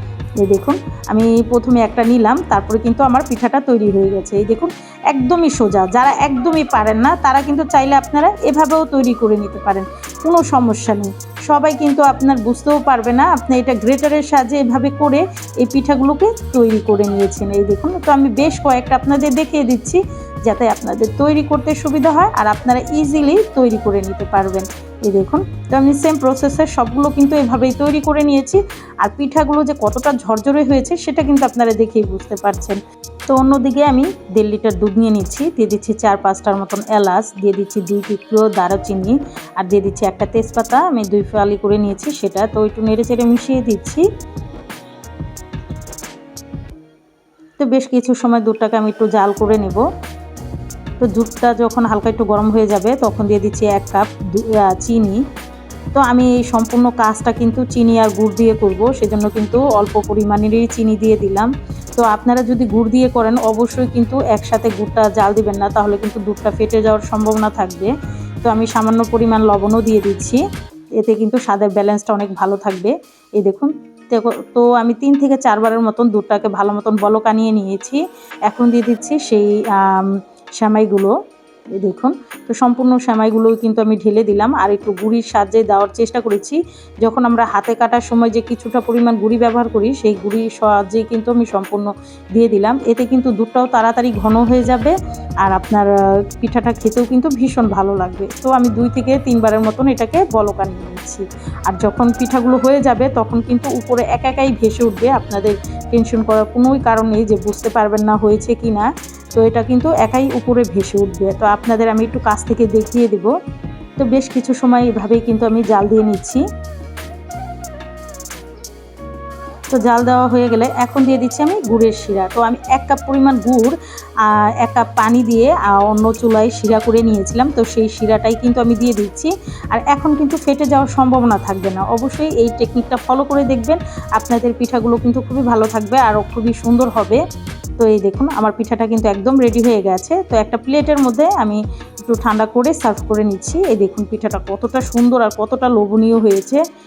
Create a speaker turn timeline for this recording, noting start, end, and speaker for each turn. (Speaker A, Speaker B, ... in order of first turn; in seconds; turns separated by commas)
Speaker A: 0.4-32.8, Speaker A: 33.3-44.0, Speaker A: 47.6-49.8, Speaker A: 51.0-55.2, Speaker A: 56.0-67.9, Speaker A: 68.5-70.4, Speaker A: 71.0-81.2, Speaker A: 81.8-113.3, Speaker A: 114.0-116.4, Speaker A: 119.7-137.2, Speaker A: 137.8-146.6